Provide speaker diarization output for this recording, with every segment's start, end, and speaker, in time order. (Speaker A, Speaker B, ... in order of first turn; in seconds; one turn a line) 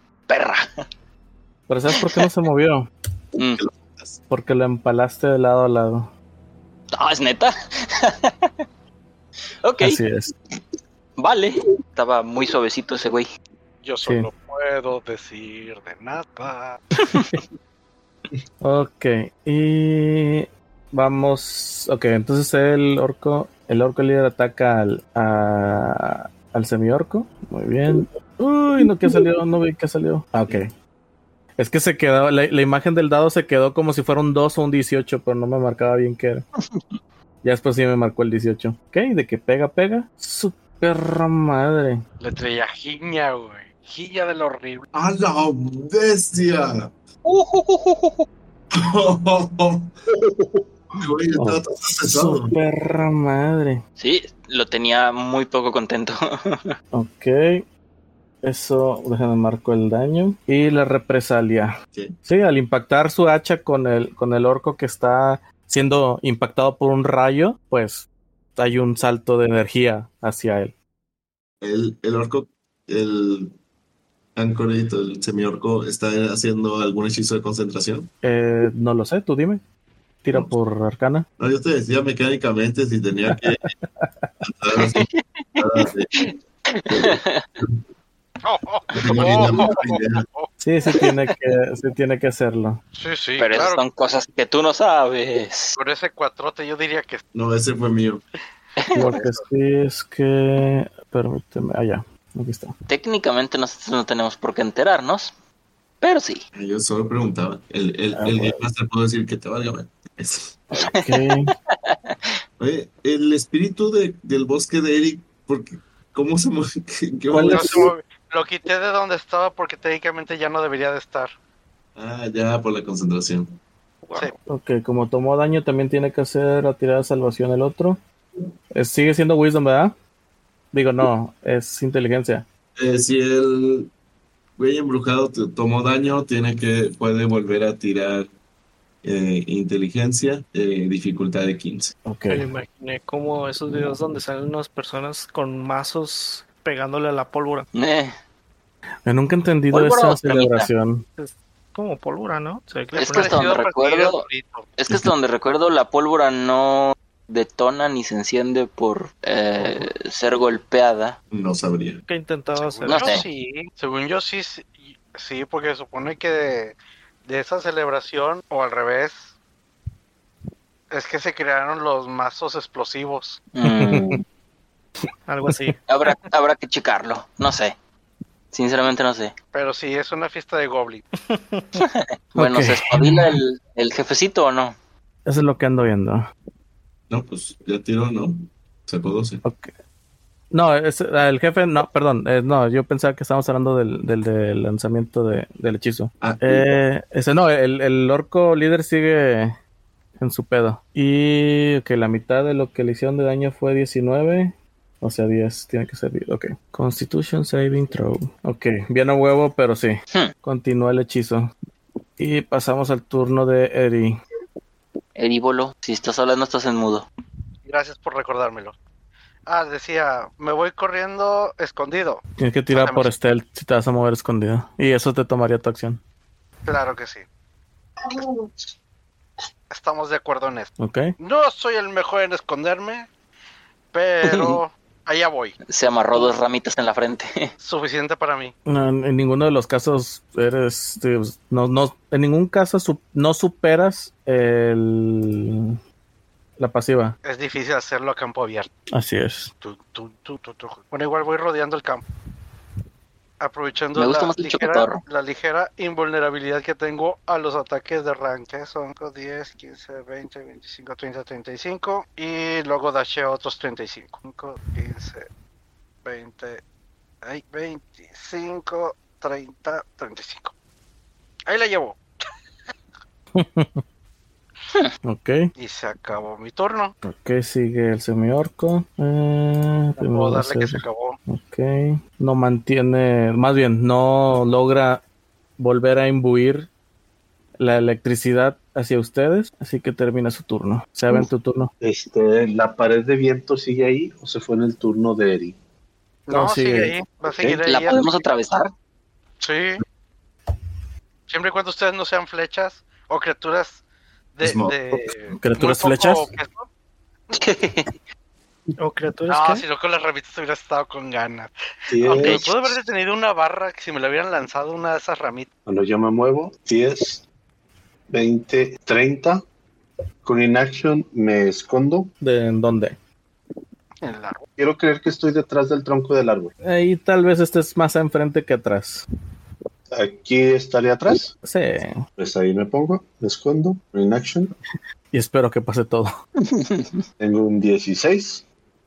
Speaker A: 0.3-0.8
Speaker B: 1.7-2.9
Speaker A: 1.9-2.3
Speaker A: 3.4-3.6
Speaker C: 3.6-4.2
Speaker B: 4.3-6.1
Speaker A: 6.9-8.5
Speaker A: 9.6-10.0
Speaker B: 9.8-10.3
Speaker A: 11.2-13.3
Speaker D: 13.8-16.8
Speaker B: 14.0-14.3
Speaker A: 17.0-17.3
Speaker B: 18.6-30.7
Speaker B: 31.6-36.5
Speaker B: 37.4-42.0
Speaker D: 42.2-44.9
Speaker C: 44.9-46.9
Speaker A: 47.2-48.2
Speaker C: 48.7-49.9
Speaker C: 51.0-52.5
Speaker B: 51.4-53.8
Speaker A: 54.0-56.7
Speaker B: 56.9-57.6
Speaker B: 58.4-70.7
Speaker C: 71.6-73.5
Speaker C: 74.4-78.1
Speaker B: 78.2-79.6
Speaker B: 80.2-81.3
Speaker C: 81.4-83.7
Speaker B: 84.0-84.3
Speaker C: 84.4-86.1
Speaker A: 84.8-85.6
Speaker A: 86.2-87.5
Speaker C: 86.9-87.8
Speaker D: 88.4-90.5
Speaker C: 88.9-90.3
Speaker B: 90.6-92.8
Speaker D: 93.0-93.8
Speaker A: 93.4-95.8
Speaker D: 95.8-97.2
Speaker C: 97.3-98.2
Speaker B: 98.9-102.7
Speaker D: 99.0-99.4
Speaker A: 102.9-105.3
Speaker A: 106.0-106.4
Speaker C: 106.5-110.6
Speaker B: 108.1-108.6
Speaker B: 110.7-111.5
Speaker A: 110.8-112.2
Speaker C: 112.6-117.9
Speaker B: 117.3-117.9
Speaker D: 117.4-121.3
Speaker C: 122.0-123.6
Speaker E: 124.1-124.3
Speaker B: 124.5-128.0
Speaker B: 128.7-129.9
Speaker B: 130.7-132.4
Speaker C: 132.8-133.9
Speaker C: 134.6-138.3
Speaker C: 139.0-141.9
Speaker B: 142.1-142.5
Speaker E: 142.3-147.7
Speaker A: 147.7-148.1
Speaker B: 149.1-151.0
Speaker A: 149.7-150.7
Speaker E: 151.2-153.5
Speaker D: 152.9-154.7
Speaker A: 153.0-154.3
Speaker A: 154.8-161.2
Speaker C: 161.3-162.0
Speaker E: 162.1-163.3
Speaker D: 162.6-169.3
Speaker A: 162.9-163.2
Speaker D: 170.9-173.4
Speaker A: 173.6-174.2
Speaker B: 173.7-174.2
Speaker E: 175.3-175.8
Speaker A: 175.9-177.7
Speaker A: 178.5-179.3
Speaker D: 179.5-181.0
Speaker E: 181.3-181.8
Speaker A: 181.8-184.8
Speaker B: 182.4-183.4
Speaker B: 185.3-186.3
Speaker C: 187.1-189.4
Speaker B: 189.4-189.7
Speaker B: 190.5-199.6
Speaker C: 196.2-196.7
Speaker B: 200.2-211.5
Speaker B: 212.2-214.2
Speaker A: 215.2-217.1
Speaker D: 217.7-218.8
Speaker D: 219.5-223.1
Speaker B: 222.4-226.0
Speaker D: 226.7-227.3
Speaker D: 229.7-233.1
Speaker B: 230.8-231.1
Speaker D: 233.9-235.6
Speaker A: 234.2-234.6
Speaker A: 235.7-237.5
Speaker D: 237.6-238.5
Speaker B: 238.7-245.8
Speaker B: 246.6-247.2
Speaker D: 247.2-248.7
Speaker B: 248.9-249.5
Speaker D: 249.6-252.1
Speaker D: 253.4-265.3
Speaker A: 253.9-255.0
Speaker D: 266.0-266.6
Speaker D: 267.2-270.5
Speaker D: 271.5-272.1
Speaker B: 273.4-273.8
Speaker B: 275.0-275.5
Speaker D: 275.6-276.9
Speaker B: 277.0-285.0
Speaker D: 280.0-281.2
Speaker B: 285.6-286.7
Speaker B: 287.6-291.7
Speaker F: 291.8-295.6
Speaker D: 296.3-298.2
Speaker B: 296.3-296.9
Speaker A: 297.6-298.7
Speaker D: 299.4-299.8
Speaker D: 301.3-303.8
Speaker D: 304.4-306.7
Speaker C: 304.4-305.3
Speaker B: 305.4-306.3
Speaker A: 307.3-307.9
Speaker E: 308.8-309.6
Speaker D: 309.3-315.5
Speaker F: 311.9-312.5
Speaker A: 312.2-312.4
Speaker F: 315.7-317.2
Speaker F: 318.1-319.4
Speaker F: 320.2-322.1
Speaker B: 322.2-323.0
Speaker D: 324.0-324.5
Speaker F: 324.6-326.5
Speaker B: 326.6-329.0
Speaker F: 329.9-331.3
Speaker B: 331.4-332.0
Speaker F: 332.2-334.5
Speaker B: 335.1-336.1
Speaker A: 336.5-337.0
Speaker F: 337.2-338.4